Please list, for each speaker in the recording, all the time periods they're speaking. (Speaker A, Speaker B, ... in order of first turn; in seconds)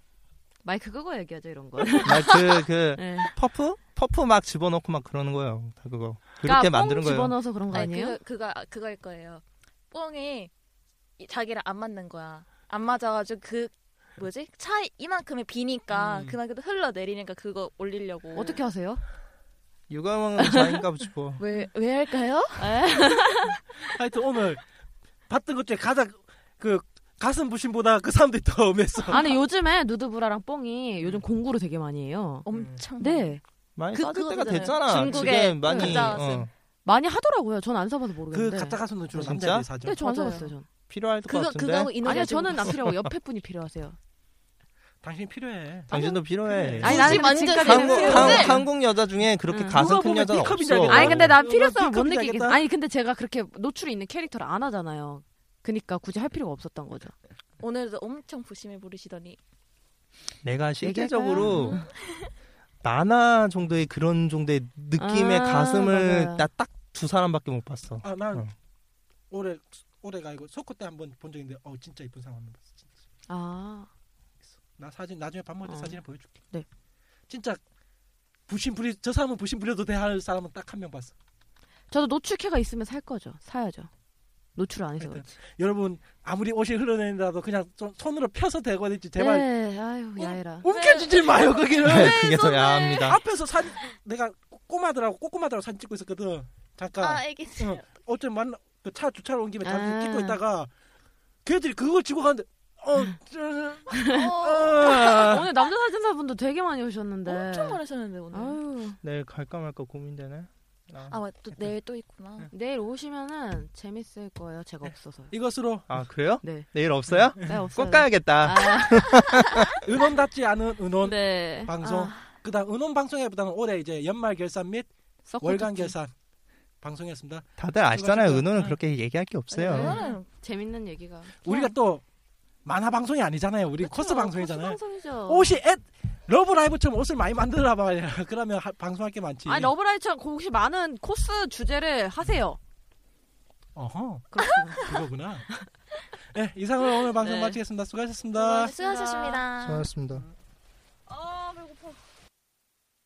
Speaker A: 0.6-3.3, 6.4-8.2, 18.4-19.0, 22.6-23.6, 29.1-32.5, 33.0-33.4, 34.4-36.0, 36.9-38.8, 39.8-40.7, 41.2-44.0, 46.8-48.6, 49.5-49.8, 50.8-57.1, 60.8-61.9, 65.0-66.5, 73.3-73.9, 75.7-76.0, 81.9-83.9, 84.6-85.3, 89.2-90.7, 99.6-100.4, 104.0-104.2, 104.8-109.0, 112.5-115.3, 116.4-116.7, 117.4-119.3, 121.0-121.7, 125.3-126.0, 129.6-131.7, 133.8-135.6, 139.5-142.6, 144.3-144.9, 147.2-147.6, 148.4-149.4
Speaker B: 2.0-7.3, 19.9-21.4, 33.8-36.5, 39.1-39.7, 40.9-41.9, 42.7-43.1, 45.9-51.4, 60.4-61.8, 62.8-68.5, 91.8-93.2, 109.0-111.2, 115.9-119.7, 127.6-130.0, 149.6-150.2
Speaker C: 7.7-10.5, 11.2-18.6, 21.4-22.7, 32.5-33.4, 33.9-36.5, 40.0-40.5, 42.0-42.8, 45.9-48.5, 57.6-59.4, 61.4-62.3, 90.7-93.1, 97.0-97.8, 104.1-105.3, 107.3-108.6, 111.1-112.5, 121.8-122.3, 129.6-130.2, 148.5-149.9
Speaker D: 15.9-16.4, 23.9-24.7, 25.3-29.3, 32.5-32.8, 38.3-40.0, 45.0-48.6, 49.7-52.6, 68.0-68.5, 69.3-72.9, 74.5-76.3, 77.3-77.6, 78.5-81.1, 85.0-89.5, 90.2-100.7, 101.5-105.5, 114.8-116.0, 117.1-117.6, 119.8-124.9, 125.4-126.1, 126.8-128.7, 131.4-132.0, 132.7-139.7, 143.8-145.5, 146.3-148.7